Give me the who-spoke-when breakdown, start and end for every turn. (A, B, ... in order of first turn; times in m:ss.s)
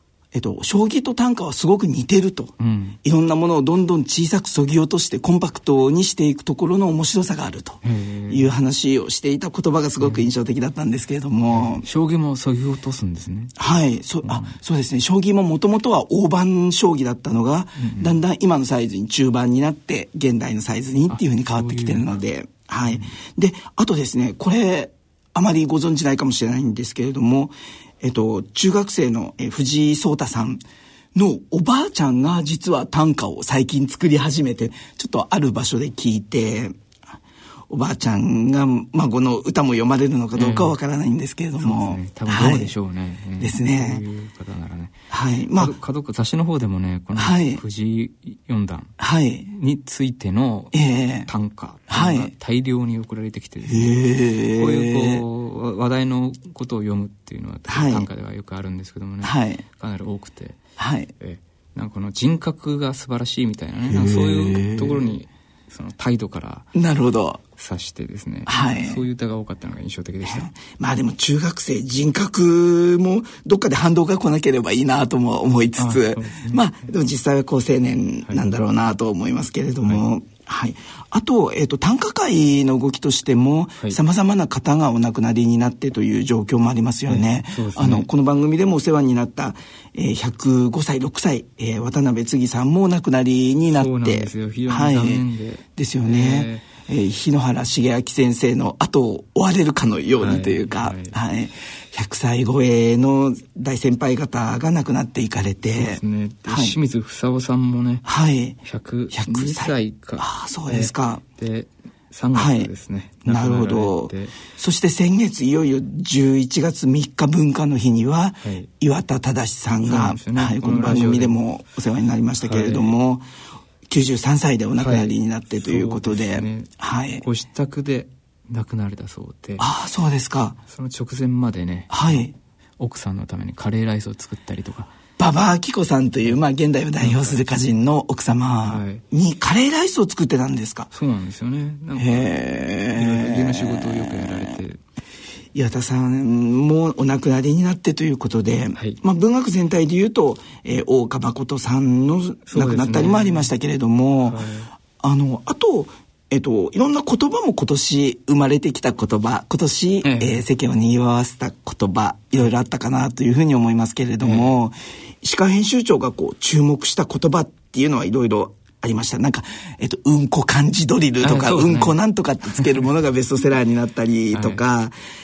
0:00.3-0:11.8 A
0:02.6-0:03.0 B
0:07.8-0:08.6 B
0:10.0-0:10.3 B
0:11.5-0:13.5 B
0:13.6-0:30.6 A
0:14.2-0:14.5 B
0:17.8-0:18.2 B
0:21.1-0:22.1 B
0:31.1-0:36.8 A
0:37.7-0:42.7 A
0:40.3-0:40.8 B
0:41.6-0:44.9 B
0:43.4-0:44.0 A
0:45.1-0:45.8 A
0:45.5-0:48.9 B
0:47.1-0:47.6 A
0:49.0-0:49.5 A
0:49.4-1:00.6 B
0:50.7-0:51.3 A
0:51.9-0:52.3 A
0:53.6-0:55.2 A
0:57.7-0:58.1 A
0:59.2-0:59.6 A
1:00.8-1:01.1 A
1:01.2-1:06.7 B
1:03.9-1:05.1 A
1:06.7-1:07.4 A
1:07.5-1:10.5 B
1:08.4-1:09.0 A
1:10.2-1:46.8 A
1:15.8-1:16.6 B
1:27.1-1:28.1 B
1:33.7-1:36.7 B
1:40.2-1:41.2 B
1:45.7-1:48.0 B
1:48.0-1:48.6 A
1:48.6-1:54.4 B
1:49.1-1:51.2 A
1:52.3-1:52.7 A
1:53.2-2:03.2 A
1:58.4-1:58.7 B
1:59.8-2:01.4 B
2:02.4-2:03.0 B
2:03.9-2:07.2 A
2:04.8-2:09.7 B
2:09.6-2:10.6 A
2:10.6-2:14.9 B
2:11.9-2:12.3 A
2:15.2-2:20.9 A
2:17.0-2:17.5 B
2:18.6-2:19.0 B
2:20.9-2:24.8 B
2:22.0-2:24.6 A
2:25.5-2:54.9 A
2:28.7-2:29.0 B
2:32.5-2:33.5 B
2:34.2-2:34.7 B
2:40.0-2:40.4 B
2:44.2-2:44.6 B
2:51.2-2:52.0 B
2:54.3-2:54.6 B